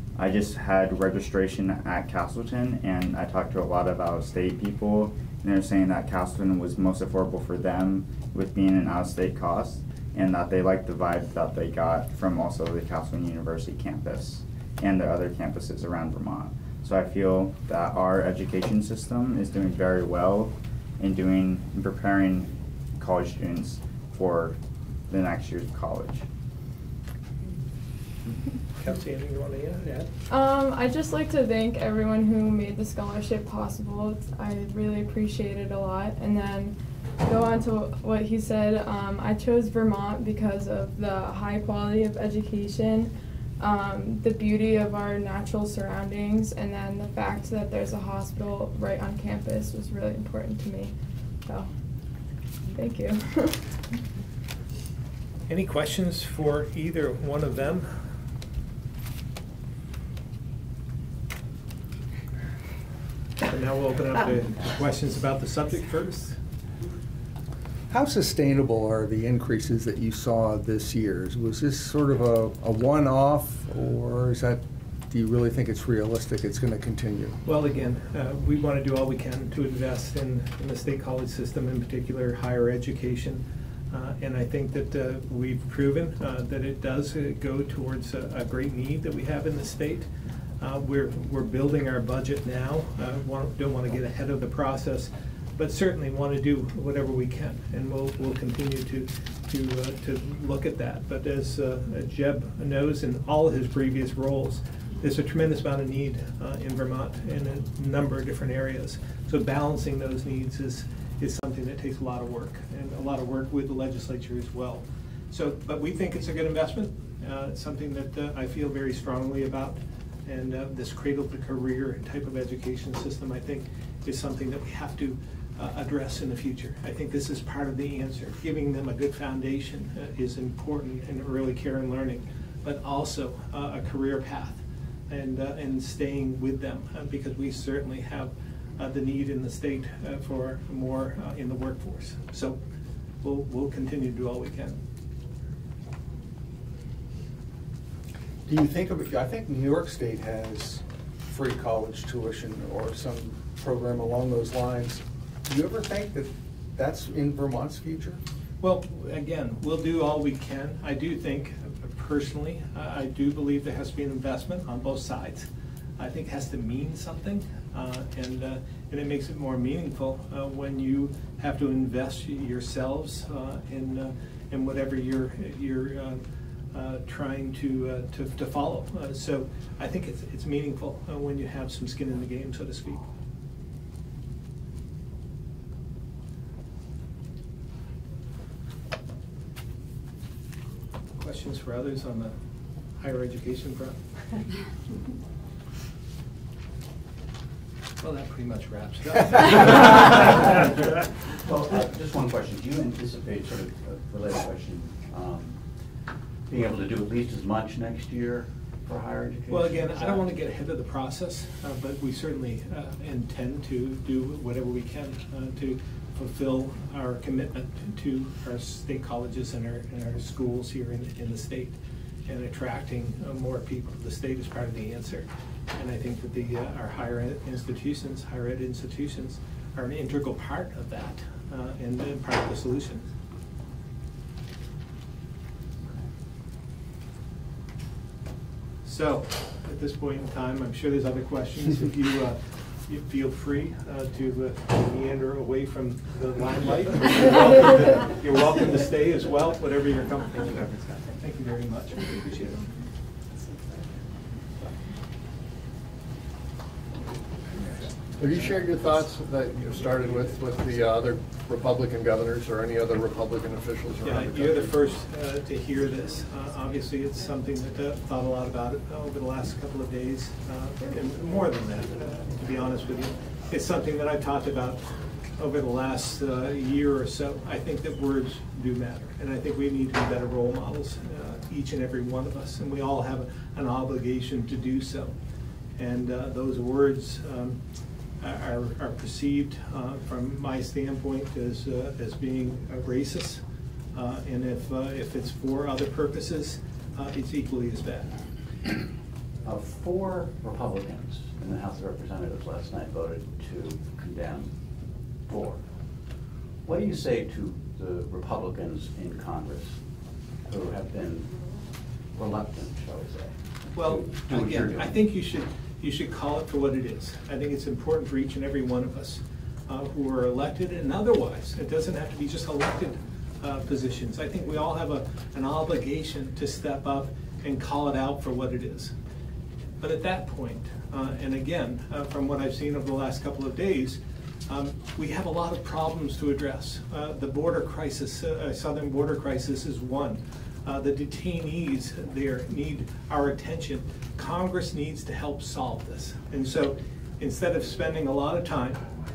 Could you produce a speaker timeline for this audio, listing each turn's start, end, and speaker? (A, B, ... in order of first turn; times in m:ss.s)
0:00.2-0:24.6 A
0:25.1-0:26.2 A
0:28.8-0:30.1 B
0:30.3-0:50.9 C
0:52.7-0:53.6 C
0:55.5-0:57.9 B
1:03.4-1:06.4 B
1:07.9-1:17.4 D
1:17.5-1:30.1 B
1:30.6-2:22.6 B
2:23.2-2:24.8 B
2:28.5-2:38.2 D
2:38.6-3:03.1 B
3:11.2-3:12.4 B
3:13.0-3:14.1 B
3:18.0-3:20.2 B
3:21.4-3:25.6 E
3:26.5-3:30.2 E
3:29.5-3:53.1 B
3:58.8-4:12.7 B
4:18.2-4:24.9 F
4:24.0-4:34.8 B
4:35.4-4:45.1 B
4:45.8-4:47.6 B
4:48.2-4:53.4 B
4:53.9-4:58.1 B
4:59.4-5:04.6 E
5:05.3-5:05.6 E
5:06.6-5:09.8 E
5:10.5-5:11.3 E
5:12.1-5:15.0 E
5:13.8-5:28.9 B
5:29.8-5:48.8 B